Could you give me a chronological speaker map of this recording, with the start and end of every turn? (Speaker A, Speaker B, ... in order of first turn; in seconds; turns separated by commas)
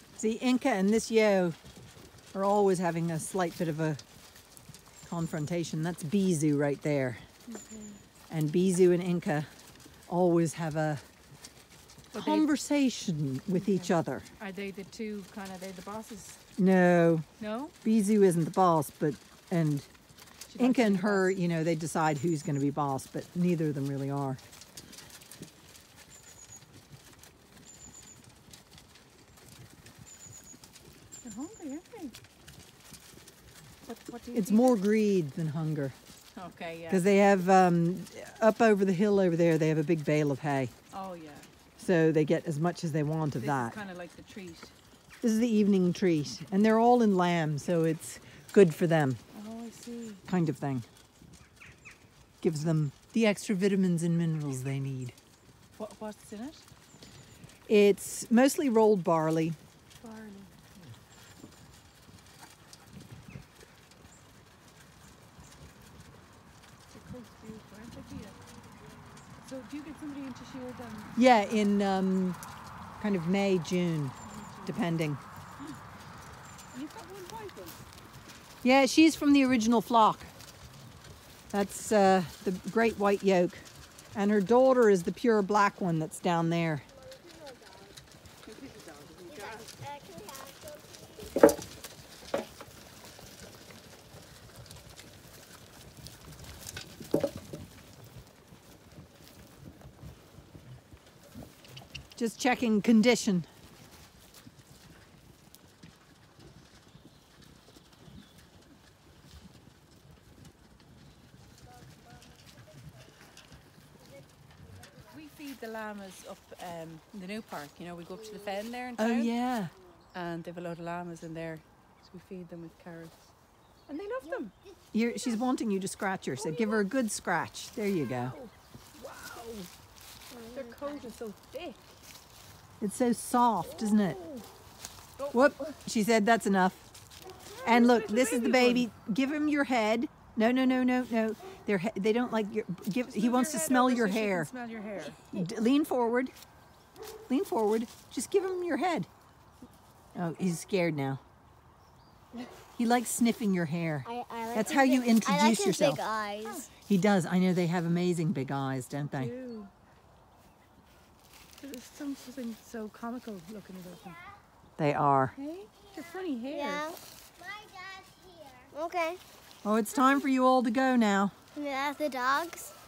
Speaker A: 0.2-1.6, Speaker A: 2.3-4.0, Speaker A: 5.0-7.2, Speaker B: 7.5-8.0, Speaker A: 8.3-9.5, Speaker A: 10.1-11.0, Speaker B: 12.1-12.5, Speaker A: 12.1-14.3, Speaker B: 13.5-16.4, Speaker A: 16.6-17.3, Speaker B: 17.4-17.7, Speaker A: 17.8-19.9, Speaker B: 20.5-21.3, Speaker A: 20.6-24.4, Speaker B: 31.2-32.1, Speaker B: 33.8-34.8, Speaker A: 34.3-36.0, Speaker B: 36.3-37.1, Speaker A: 36.9-40.7, Speaker B: 40.9-41.5, Speaker A: 41.8-43.8, Speaker B: 43.4-44.7, Speaker A: 45.2-49.2, Speaker B: 49.3-50.2, Speaker A: 50.3-50.9, Speaker A: 52.4-55.1, Speaker B: 55.8-56.6, Speaker A: 57.7-59.6, Speaker B: 60.0-60.6, Speaker B: 66.9-68.4, Speaker B: 69.4-71.7, Speaker A: 71.1-72.4, Speaker A: 73.0-74.1, Speaker B: 74.2-74.8, Speaker A: 74.7-75.2, Speaker B: 76.7-77.8, Speaker A: 78.6-80.3, Speaker A: 81.5-86.8, Speaker C: 87.1-87.9, Speaker B: 88.5-89.7, Speaker C: 89.2-91.3, Speaker A: 102.2-103.5, Speaker B: 115.1-119.3, Speaker A: 119.0-119.7, Speaker B: 120.1-123.3, Speaker B: 123.9-124.5, Speaker A: 124.9-128.3, Speaker B: 128.1-129.7, Speaker C: 130.3-131.1, Speaker B: 130.5-131.9, Speaker A: 132.8-134.2, Speaker B: 133.6-134.4, Speaker B: 135.2-135.7, Speaker A: 135.3-136.9, Speaker B: 137.5-138.9, Speaker A: 137.6-144.5, Speaker B: 143.0-145.2, Speaker A: 145.3-146.3, Speaker A: 147.3-149.1, Speaker A: 150.1-151.2, Speaker A: 152.8-156.0, Speaker C: 154.0-156.7, Speaker A: 156.9-159.3, Speaker B: 159.1-159.7, Speaker B: 161.6-164.2, Speaker A: 164.8-165.3, Speaker B: 165.3-166.9, Speaker C: 166.4-169.2, Speaker A: 169.6-171.3, Speaker C: 171.5-172.7